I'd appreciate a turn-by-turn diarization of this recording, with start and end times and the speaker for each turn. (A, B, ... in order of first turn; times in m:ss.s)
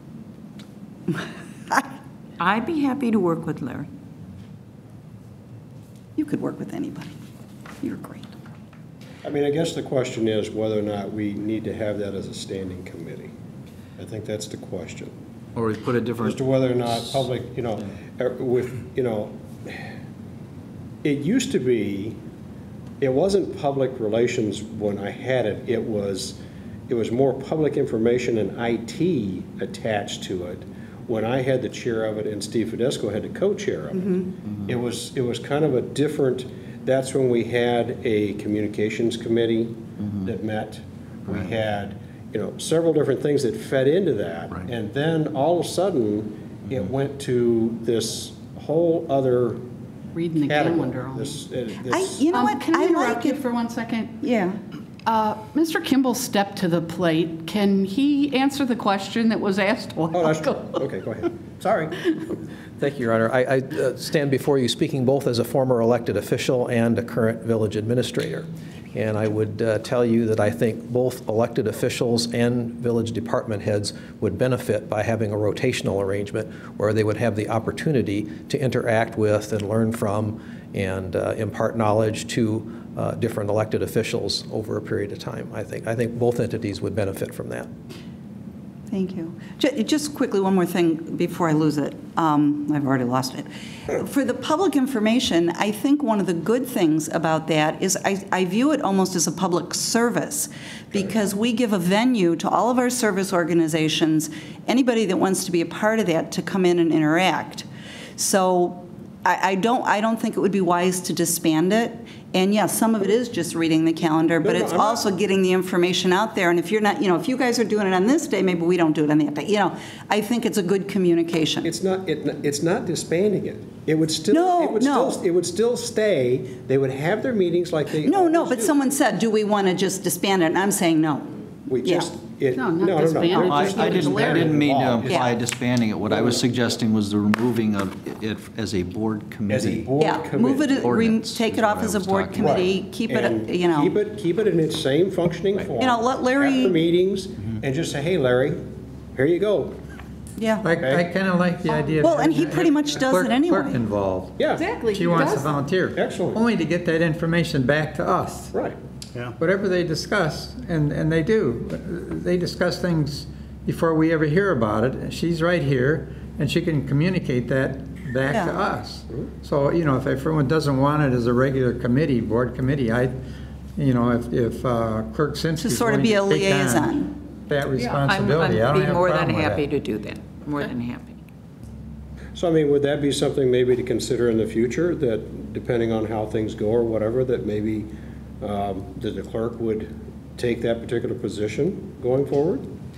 0:01.1-0:01.8 A
0:02.4-0:03.8 B
0:02.4-0:03.8 A
0:06.2-0:07.2 A
0:07.8-0:08.3 A
0:09.2-0:13.3 C
0:14.0-0:15.1 C
0:15.6-0:17.2 D
0:16.2-0:19.9 C
0:21.0-0:22.2 C
0:23.0-0:26.4 C
0:26.9-0:49.6 C
0:50.2-0:51.4 E
0:50.4-0:52.3 C
0:51.9-0:53.4 A
0:52.3-0:54.2 E
0:54.2-0:54.6 A
0:55.1-1:00.8 E
1:00.1-1:02.0 C
1:02.8-1:27.7 F
1:28.9-2:01.7 A
1:54.4-1:55.0 C
2:01.6-2:08.9 C
2:04.3-2:05.2 A
2:08.0-2:12.1 A
2:11.7-2:15.3 C
2:12.5-2:14.6 E
2:13.3-2:19.9 D
2:15.1-2:15.3 A
2:16.1-2:16.4 C
2:19.5-2:21.0 C
2:20.0-2:24.0 A
2:20.8-2:22.7 D
2:22.4-2:28.6 C
2:25.8-2:26.8 A
2:29.2-2:29.8 C
2:30.4-2:30.7 A
2:30.6-2:38.5 G
2:30.8-2:31.1 C
2:31.9-2:33.8 A
2:34.4-2:35.4 C
2:34.5-2:35.6 E
2:36.0-2:36.4 C
2:38.5-2:38.8 C
2:39.4-2:53.1 G
2:48.3-2:48.6 A
2:53.8-2:59.6 G
2:55.6-2:57.2 A
2:57.8-3:01.1 B
3:02.4-3:12.7 C